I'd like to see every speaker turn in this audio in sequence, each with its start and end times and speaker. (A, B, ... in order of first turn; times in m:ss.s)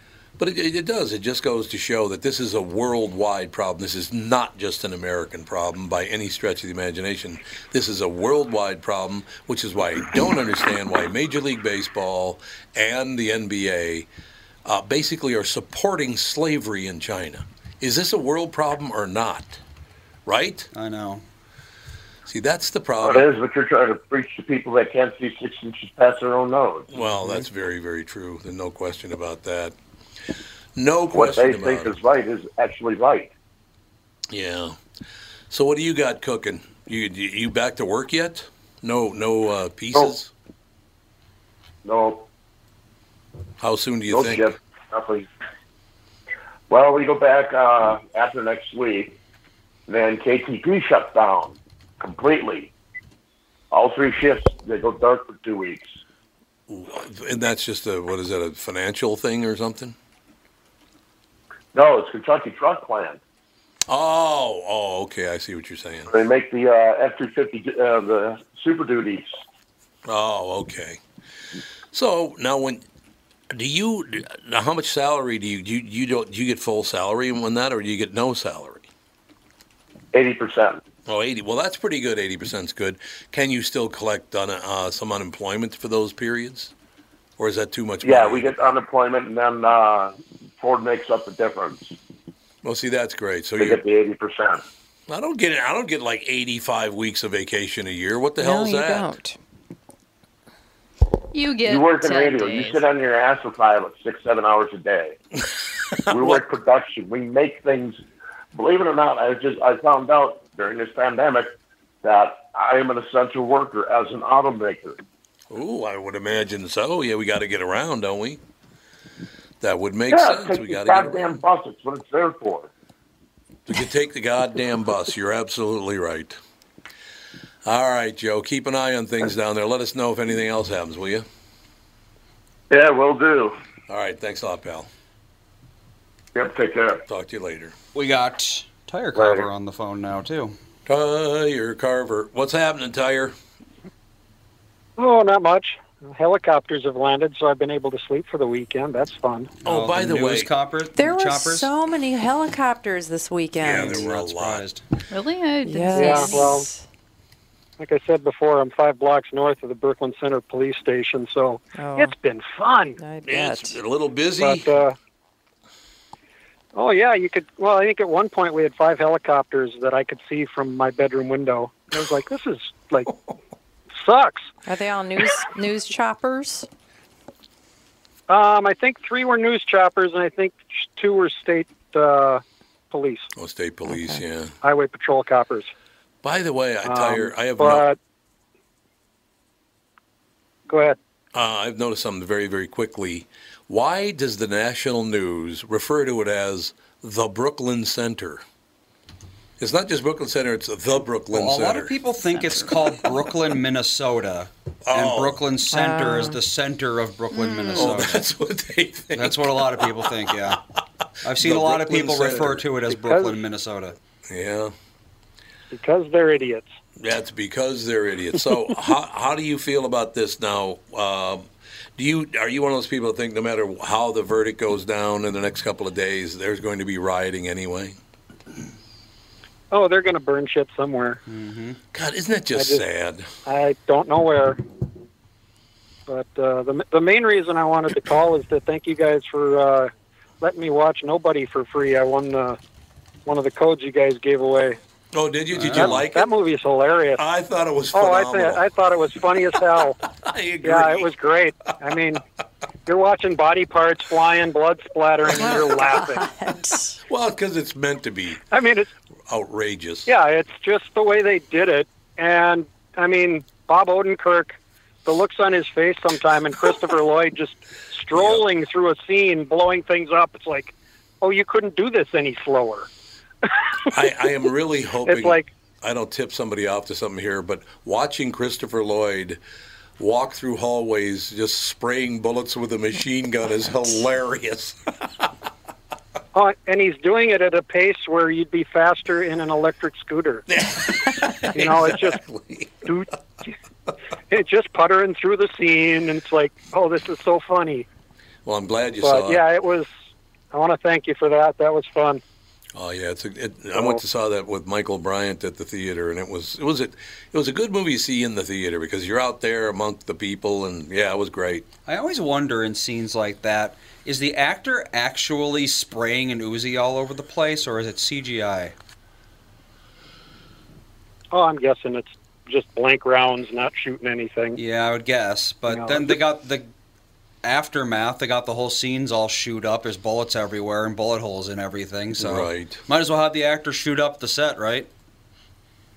0:00.4-0:14.1 A
0:14.6-0:19.6 A
0:20.2-0:20.7 A
0:20.7-0:21.2 B
0:22.3-0:23.3 A
0:23.0-0:26.9 C
0:26.9-0:29.8 A
0:27.0-0:27.5 B
0:30.8-0:32.0 A
0:31.1-0:33.3 C
0:34.3-0:34.8 A
0:35.5-0:40.3 A
0:41.8-0:42.3 C
0:43.6-0:44.5 A
0:44.1-0:45.3 C
0:46.7-0:49.1 C
0:49.9-0:52.7 C
0:53.7-0:55.9 C
0:56.7-1:00.0 A
1:01.7-1:03.2 C
1:03.9-1:06.1 A
1:06.1-1:09.3 C
1:10.1-1:11.0 A
1:11.9-1:12.8 A
1:13.5-1:18.9 A
1:20.1-1:20.8 C
1:21.1-1:26.7 A
1:27.4-1:28.7 A
1:28.0-1:32.0 C
1:32.6-1:33.8 A
1:33.6-1:34.6 C
1:35.1-1:39.1 A
1:38.4-1:39.4 D
1:41.3-1:42.8 E
1:41.7-1:45.2 C
1:46.0-1:46.4 A
1:46.1-1:48.0 C
1:48.5-1:51.5 C
1:52.0-1:55.0 C
1:55.5-1:58.4 A
1:59.6-2:01.4 A
2:00.1-2:02.7 C
2:03.7-2:06.4 A
2:07.6-2:11.2 A
2:12.7-2:13.6 C
2:13.9-2:14.9 A
2:16.4-2:17.0 C
2:17.1-2:17.7 A
2:17.9-2:20.6 B
2:19.1-2:19.5 C
2:20.9-2:23.4 A
2:25.0-2:29.5 F
2:29.6-2:31.7 B
2:29.6-2:30.5 A
2:31.0-2:34.0 D
2:33.6-2:34.6 A
2:33.6-2:34.8 B
2:35.1-2:36.5 E
2:35.6-2:36.8 D
2:35.9-2:36.7 F
2:37.8-2:43.0 F
2:41.8-2:42.1 D
2:43.0-2:43.8 D
2:43.2-2:44.8 A
2:44.4-2:45.0 F
2:46.7-2:53.1 F
2:54.0-2:54.5 F
2:54.7-2:56.7 D
2:58.3-3:03.3 F
3:03.4-3:04.6 A
3:03.9-3:04.2 D
3:04.6-3:05.7 F
3:06.2-3:07.9 A
3:06.8-3:08.0 F
3:10.7-3:11.0 F
3:11.3-3:18.4 A
3:19.6-3:22.0 A
3:21.3-3:28.2 B
3:22.2-3:22.7 E
3:24.9-3:25.4 A
3:25.7-3:26.4 D
3:27.4-3:27.8 E
3:27.8-3:30.1 A
3:29.1-3:30.6 B
3:31.2-3:34.0 B
3:31.3-3:32.7 A
3:32.9-3:33.4 F
3:34.3-3:34.7 A
3:35.7-3:36.7 F
3:37.0-3:48.0 A
3:49.7-3:51.2 F
3:51.3-3:51.8 B
3:51.9-3:53.3 A
3:52.6-3:52.8 F
3:53.4-3:54.6 F
3:56.1-4:02.6 F
4:03.2-4:04.8 F
4:05.1-4:06.3 A
4:05.5-4:06.1 B
4:05.7-4:07.2 F
4:07.2-4:08.6 A
4:07.9-4:10.0 F
4:10.1-4:11.1 A
4:10.6-4:12.2 F
4:12.9-4:16.3 F
4:15.4-4:17.0 D
4:17.1-4:18.4 A
4:18.5-4:18.9 F
4:19.3-4:20.1 A
4:20.1-4:32.9 F
4:28.1-4:28.4 A
4:33.5-4:33.9 F
4:33.9-4:39.4 A
4:35.0-4:35.5 F
4:40.0-4:44.8 A
4:46.3-4:50.4 F
4:50.5-4:52.9 A
4:51.5-4:52.2 F
4:52.8-4:53.5 F
4:54.3-4:57.9 F
4:58.4-4:59.4 A
4:59.0-4:59.9 F
5:00.5-5:02.2 F
5:02.8-5:11.7 A
5:03.7-5:04.0 F
5:11.9-5:18.8 B
5:21.3-5:24.6 F
5:24.6-5:26.7 B
5:25.7-5:26.2 F
5:27.4-5:34.9 B
5:32.2-5:32.8 A